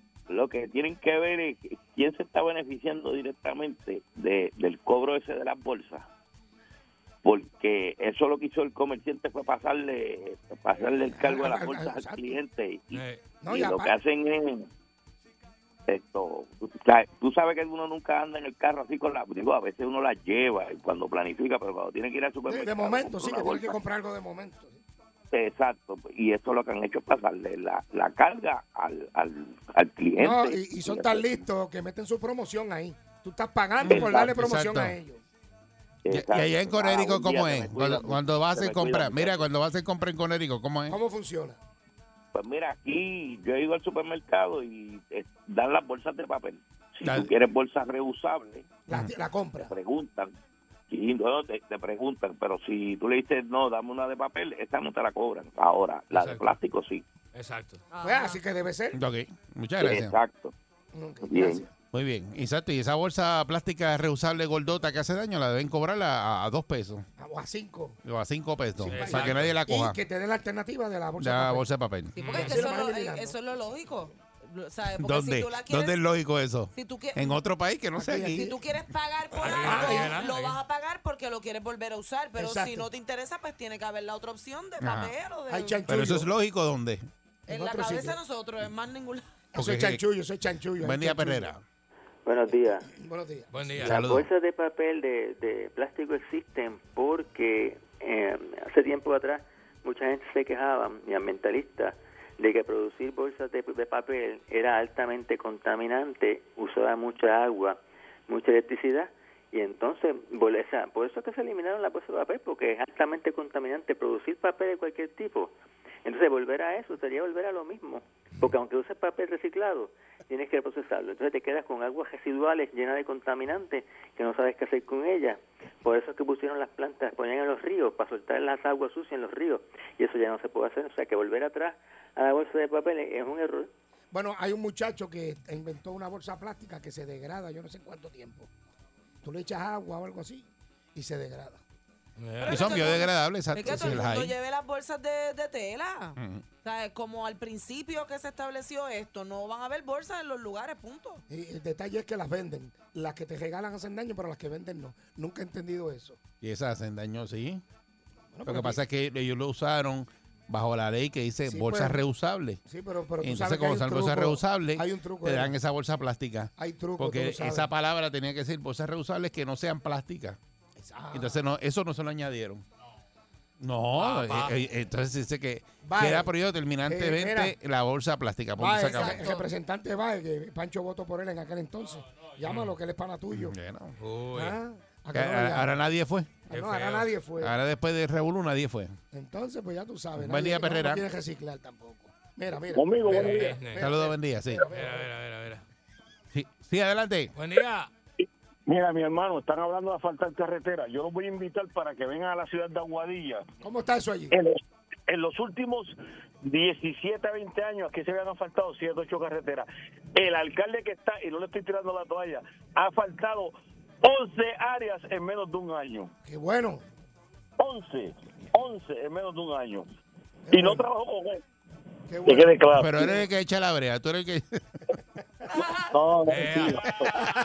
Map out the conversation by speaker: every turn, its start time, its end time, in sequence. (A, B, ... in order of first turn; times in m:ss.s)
0:00.3-0:06.1 A
0:07.2-0:14.7 A
0:11.1-0:12.4 B
0:12.9-0:13.2 C
0:13.4-0:13.9 B
0:15.9-0:23.8 A
0:22.5-0:24.8 B
0:25.3-0:31.4 A
0:30.2-0:35.2 B
0:33.8-0:35.0 D
0:33.9-0:34.3 A
0:36.0-0:39.5 A
0:36.1-0:41.0 D
0:40.9-0:41.6 B
0:42.3-0:48.7 A
0:47.0-0:47.3 D
0:48.9-0:49.8 B
0:49.7-0:50.3 A
0:50.9-0:57.0 A
0:56.1-0:56.4 C
0:57.3-0:57.8 C
0:57.9-0:58.4 E
0:58.0-0:59.0 B
0:58.9-1:00.1 D
0:59.8-1:00.5 A
1:00.9-1:01.7 B
1:01.2-1:01.7 A
1:01.9-1:07.0 D
1:07.2-1:08.0 B
1:08.0-1:10.0 D
1:08.8-1:11.7 B
1:08.8-1:09.6 C
1:11.2-1:12.2 D
1:12.2-1:16.0 E
1:12.2-1:12.8 C
1:12.3-1:13.4 B
1:15.0-1:18.5 D
1:16.7-1:17.4 E
1:18.0-1:18.5 B
1:18.3-1:25.8 E
1:19.4-1:20.6 C
1:19.5-1:20.2 B
1:22.4-1:22.9 B
1:24.8-1:25.1 D
1:25.5-1:26.3 B
1:25.9-1:27.0 D
1:27.5-1:28.2 B
1:27.5-1:29.3 E
1:29.5-1:31.5 B
1:29.5-1:30.0 D
1:30.8-1:31.6 D
1:32.2-1:32.9 F
1:32.5-1:33.8 B
1:33.5-1:33.9 C
1:33.8-1:34.3 D
1:33.8-1:55.5 F
1:56.0-2:13.7 F
2:14.1-2:18.5 B
2:19.2-2:21.6 B
2:22.2-2:22.9 C
2:22.4-2:31.2 E
2:22.5-2:24.3 D
2:23.6-2:24.0 B
2:26.2-2:26.4 D
2:31.3-2:36.2 B
2:36.4-2:37.6 D
2:38.3-2:38.8 B
2:38.4-2:42.6 D
2:41.5-2:42.0 B
2:42.7-2:45.6 B
2:43.2-2:50.4 D
2:46.6-2:47.7 B
2:50.8-2:51.4 B
2:51.1-2:52.6 D
2:53.6-2:59.2 D
2:54.0-2:54.6 C
2:55.8-2:56.3 B
2:56.9-2:57.5 B
2:58.6-3:03.5 B
2:58.9-2:59.5 E
3:02.4-3:02.7 C
3:03.3-3:04.0 D
3:04.0-3:04.6 C
3:04.3-3:05.7 B
3:05.1-3:06.7 D
3:06.5-3:07.5 B
3:06.5-3:07.1 C
3:07.4-3:09.0 D
3:09.1-3:15.0 B
3:10.2-3:11.0 D
3:12.7-3:13.6 G
3:13.1-3:13.9 C
3:13.8-3:14.7 D
3:14.7-3:15.6 C
3:16.3-3:17.3 D
3:17.3-3:17.9 C
3:18.7-3:23.5 G
3:23.6-3:24.4 B
3:24.3-3:36.1 G
3:36.2-3:36.8 B
3:37.6-3:39.9 G
3:40.5-3:40.8 B
3:40.5-3:41.4 G
3:42.1-3:43.1 B
3:42.2-3:43.2 G
3:42.8-3:44.8 D
3:45.8-3:47.3 G
3:46.2-3:47.0 C